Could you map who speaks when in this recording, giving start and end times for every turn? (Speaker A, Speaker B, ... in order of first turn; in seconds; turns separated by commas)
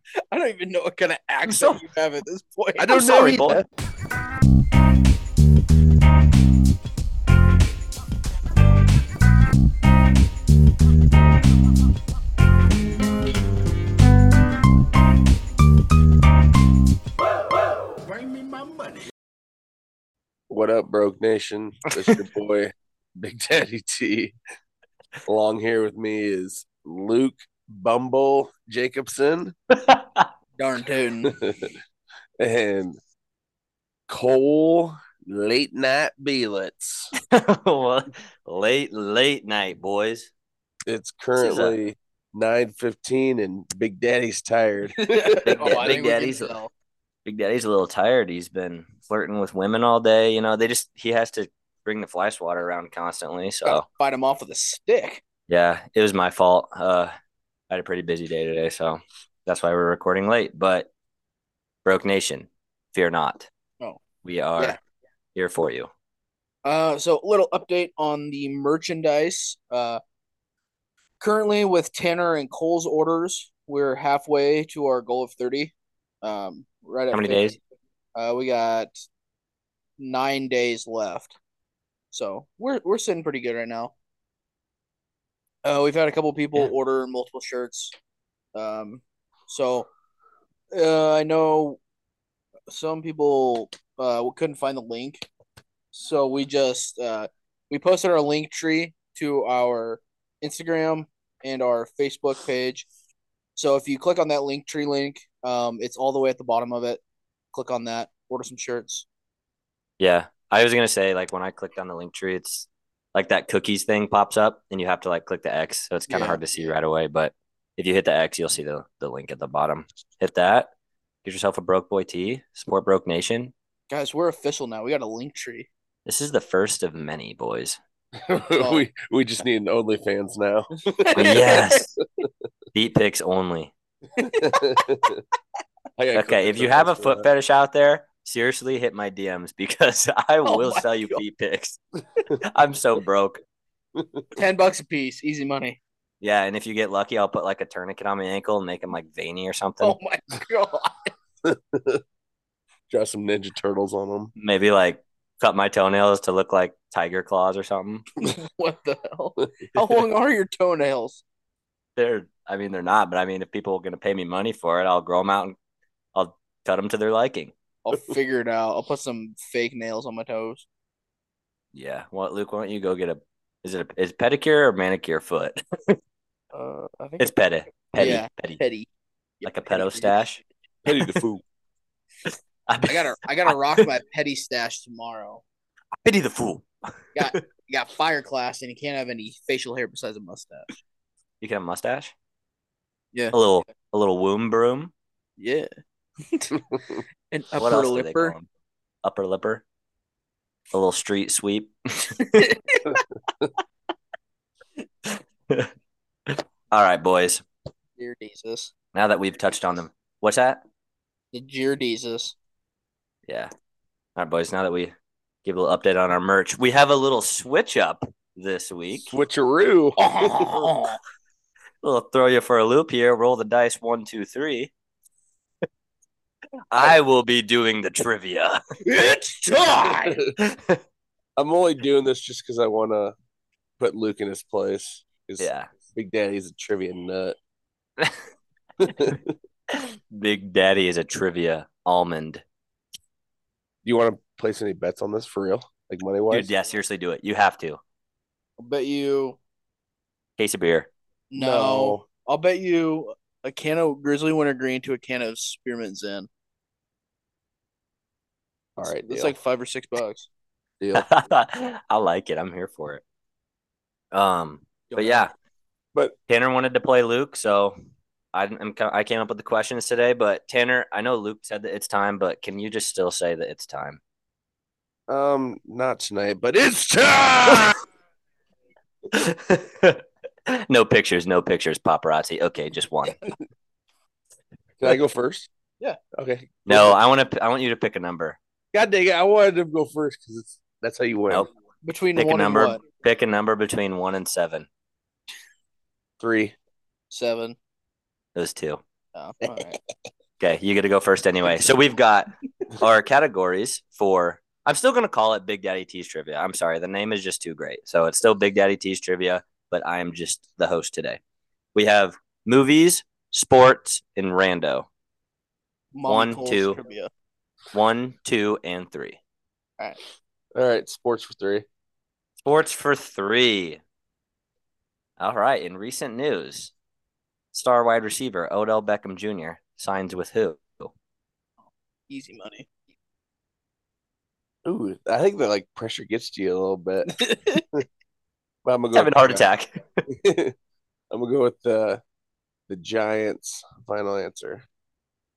Speaker A: 0.3-3.0, Speaker B: 1.5-1.8, Speaker C: 2.8-3.7, Speaker B: 2.9-3.6, Speaker C: 20.5-24.4, Speaker C: 25.3-29.5, Speaker B: 29.7-30.3, Speaker A: 30.6-31.3, Speaker C: 31.2-31.8, Speaker C: 32.4-33.0, Speaker C: 34.1-37.1, Speaker B: 37.2-40.3, Speaker C: 40.9-45.9, Speaker B: 41.4-41.8, Speaker A: 45.0-46.7, Speaker B: 45.5-46.6, Speaker B: 47.2-53.9, Speaker A: 53.6-55.2, Speaker B: 55.5-57.1, Speaker B: 57.7-60.9, Speaker B: 61.9-63.5, Speaker B: 64.2-64.8, Speaker B: 65.3-65.9, Speaker A: 66.7-70.0, Speaker A: 71.2-77.5, Speaker B: 77.1-77.6, Speaker A: 78.2-79.0, Speaker A: 80.0-81.4, Speaker A: 82.1-83.9, Speaker A: 85.6-88.0, Speaker A: 88.5-89.9, Speaker A: 90.7-91.8, Speaker A: 92.7-95.3, Speaker A: 95.9-102.9, Speaker A: 103.6-107.0, Speaker A: 107.5-109.1, Speaker B: 110.0-120.7, Speaker A: 116.1-116.4, Speaker B: 121.2-123.5, Speaker A: 123.9-125.7, Speaker B: 126.1-127.8, Speaker C: 128.2-131.6, Speaker A: 128.5-128.8, Speaker A: 130.8-131.9, Speaker B: 131.2-132.0, Speaker B: 132.7-133.7, Speaker A: 134.2-135.1, Speaker C: 134.2-135.2, Speaker C: 136.0-137.3, Speaker B: 136.1-141.8, Speaker A: 140.4-141.2, Speaker B: 142.5-143.4, Speaker C: 144.0-144.2, Speaker A: 144.3-145.8, Speaker B: 146.2-150.0, Speaker A: 149.8-151.1, Speaker C: 151.4-152.0, Speaker C: 152.9-154.3, Speaker B: 154.4-158.1, Speaker A: 158.2-161.2, Speaker B: 162.0-165.6, Speaker B: 166.2-167.5, Speaker A: 167.8-170.7, Speaker B: 171.7-176.0, Speaker A: 176.5-178.9, Speaker B: 177.2-178.6, Speaker A: 179.4-180.4, Speaker B: 179.4-180.4, Speaker C: 180.8-181.4, Speaker B: 182.7-183.8, Speaker A: 182.8-185.4, Speaker B: 186.0-187.4, Speaker A: 187.2-190.7, Speaker B: 191.4-192.1, Speaker A: 193.1-193.4, Speaker B: 193.3-194.9, Speaker A: 195.4-195.7, Speaker A: 196.2-198.3, Speaker B: 197.6-198.5, Speaker B: 199.0-199.6, Speaker B: 200.7-202.5, Speaker A: 202.2-203.0, Speaker B: 205.1-205.7, Speaker B: 206.3-207.4, Speaker A: 208.0-208.7, Speaker B: 208.9-210.6, Speaker A: 211.3-212.4, Speaker B: 214.2-219.1, Speaker C: 219.1-220.7, Speaker A: 220.0-221.0, Speaker B: 221.8-224.7, Speaker B: 226.7-228.6, Speaker A: 228.9-230.2, Speaker C: 229.8-230.3, Speaker B: 230.4-230.8, Speaker C: 231.4-233.1, Speaker C: 233.8-237.4, Speaker B: 235.4-235.7, Speaker C: 238.8-239.4, Speaker B: 239.7-242.4, Speaker C: 243.8-246.5, Speaker B: 246.3-247.8, Speaker A: 248.6-249.4, Speaker B: 250.4-250.9, Speaker A: 251.3-256.3, Speaker C: 251.4-252.1, Speaker C: 258.8-259.3, Speaker A: 258.8-260.3, Speaker C: 260.8-261.1, Speaker B: 260.9-263.0, Speaker B: 264.1-265.3, Speaker A: 264.9-265.2, Speaker B: 266.3-267.8, Speaker B: 268.3-274.0, Speaker C: 275.1-277.8, Speaker B: 279.1-283.2, Speaker C: 284.8-285.5, Speaker C: 286.2-287.0, Speaker B: 286.7-288.4, Speaker C: 288.7-291.5, Speaker A: 291.8-292.8, Speaker B: 292.2-294.7, Speaker C: 296.2-296.6, Speaker A: 297.1-297.6, Speaker B: 298.4-298.8, Speaker A: 299.1-299.8, Speaker B: 300.4-311.2, Speaker B: 311.8-314.9, Speaker A: 315.9-317.1, Speaker B: 316.1-316.8, Speaker B: 317.7-319.2, Speaker C: 320.6-321.7, Speaker B: 322.4-323.8, Speaker B: 325.2-326.7, Speaker B: 327.5-330.9, Speaker A: 332.1-332.7, Speaker C: 334.6-337.2, Speaker A: 337.1-337.7, Speaker C: 338.6-339.5, Speaker B: 338.9-340.0, Speaker C: 340.1-340.5, Speaker C: 341.1-342.0, Speaker C: 342.7-344.7